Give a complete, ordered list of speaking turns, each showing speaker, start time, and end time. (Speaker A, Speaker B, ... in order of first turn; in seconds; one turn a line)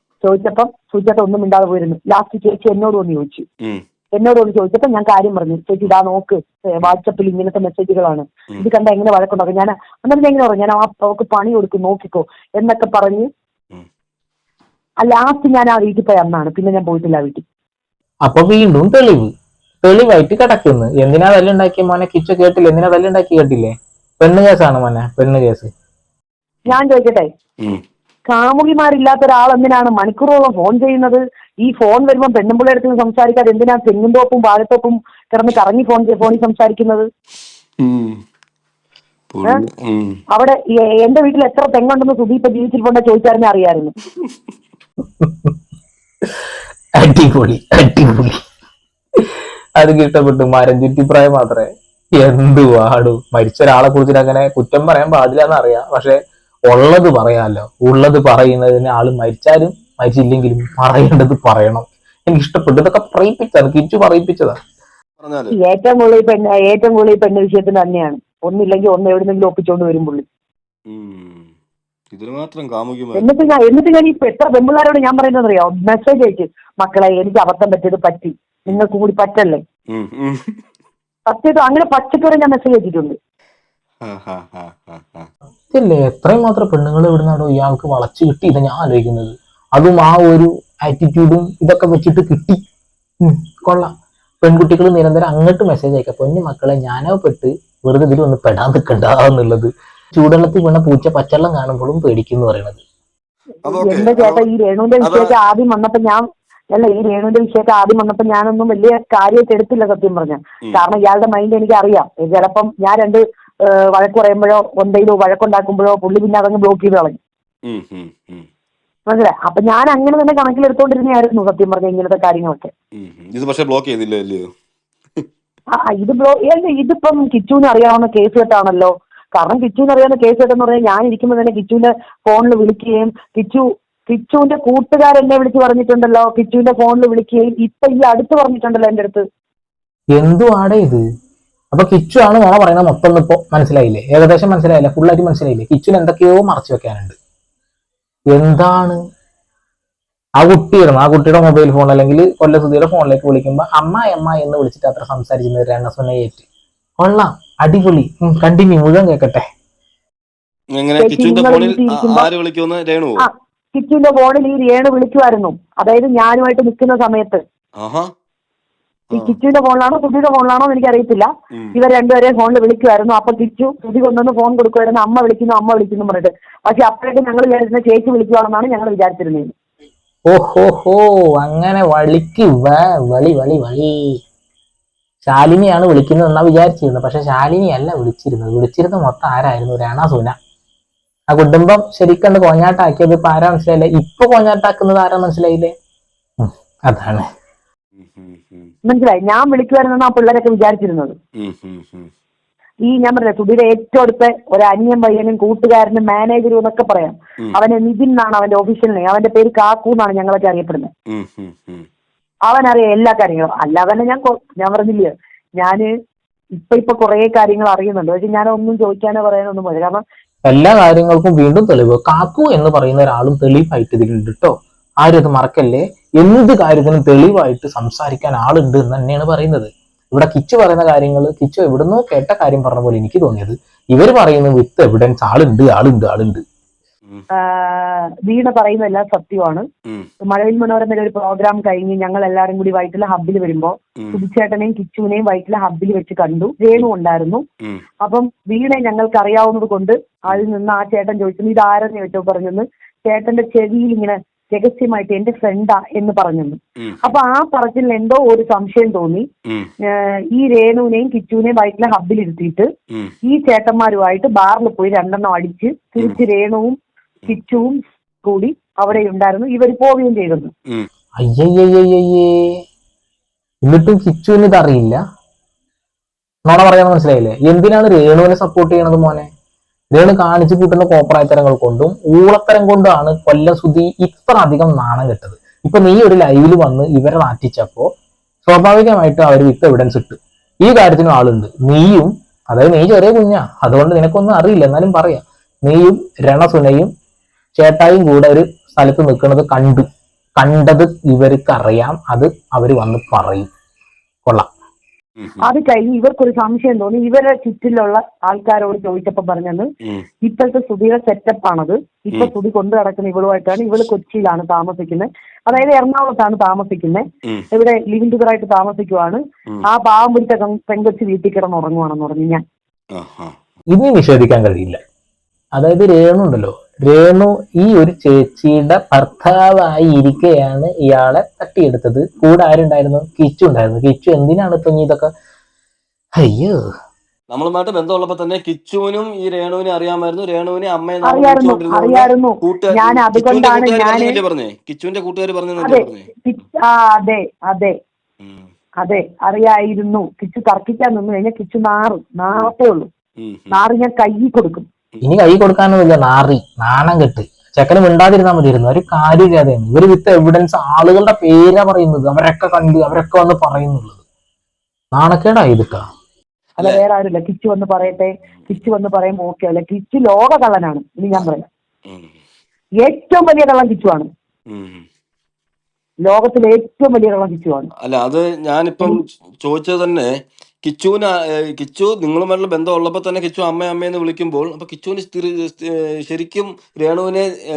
Speaker A: 0.2-3.5
Speaker A: 4.2-13.3
Speaker A: 15.0-17.4
Speaker B: 18.2-19.3
Speaker B: 19.8-25.7
Speaker A: 26.7-27.3
Speaker A: 28.3-37.1
Speaker C: 37.8-38.2
Speaker C: 39.3-40.2
Speaker A: 40.3-43.9
Speaker B: 45.2-45.5
Speaker B: 47.0-48.4
Speaker B: 49.8-51.7
Speaker B: 52.2-56.2
Speaker B: 56.7-64.5
Speaker C: 65.2-65.6
Speaker A: 65.5-70.2
Speaker C: 70.9-71.5
Speaker C: 72.1-73.4
Speaker A: 73.1-79.6
Speaker C: 80.0-80.5
Speaker A: 81.3-83.2
Speaker C: 84.1-85.3
Speaker B: 85.7-92.6
Speaker B: 93.2-102.8
Speaker C: 103.6-104.5
Speaker A: 103.7-117.2
Speaker C: 105.0-105.4
Speaker C: 117.7-118.5
Speaker A: 119.1-122.7
Speaker C: 123.0-124.5
Speaker A: 125.9-139.2
Speaker B: 140.2-141.0
Speaker B: 141.7-147.2
Speaker B: 148.3-149.0
Speaker B: 150.4-156.4
Speaker B: 157.0-159.4
Speaker C: 160.8-163.3
Speaker A: 161.0-162.3
Speaker A: 163.2-167.4
Speaker C: 167.8-168.1
Speaker A: 169.1-179.5
Speaker B: 180.3-184.2
Speaker B: 185.2-190.3
Speaker B: 191.3-195.7
Speaker B: 196.4-197.2
Speaker C: 197.9-198.7
Speaker A: 198.9-201.2
Speaker C: 201.4-202.1
Speaker A: 202.9-210.9
Speaker C: 211.1-211.9
Speaker A: 212.5-215.9
Speaker A: 216.6-220.0
Speaker B: 220.5-236.4
Speaker A: 237.4-239.7
Speaker A: 240.2-247.4
Speaker A: 248.0-259.3
Speaker C: 256.8-257.1
Speaker A: 259.9-262.7
Speaker A: 263.2-270.5
Speaker B: 271.2-272.6
Speaker B: 273.6-275.0
Speaker B: 276.4-279.3
Speaker B: 279.9-287.9
Speaker B: 288.4-296.9
Speaker B: 297.6-299.9
Speaker B: 300.4-303.5
Speaker C: 305.2-305.4
Speaker A: 305.4-309.7
Speaker A: 310.2-322.4
Speaker C: 323.0-323.3
Speaker B: 323.7-324.8
Speaker B: 325.6-335.1
Speaker B: 336.2-336.6
Speaker C: 337.3-346.1
Speaker A: 341.1-344.1
Speaker A: 345.6-347.8
Speaker C: 348.2-348.5
Speaker A: 348.8-352.9
Speaker C: 353.2-353.6
Speaker A: 353.5-354.6
Speaker B: 355.0-364.0
Speaker B: 364.9-365.8
Speaker C: 366.6-366.8
Speaker A: 366.6-371.4
Speaker C: 367.8-368.7
Speaker C: 371.9-372.1
Speaker A: 372.8-374.1
Speaker C: 374.5-374.8
Speaker A: 376.0-377.7
Speaker C: 377.8-380.1
Speaker C: 380.6-387.2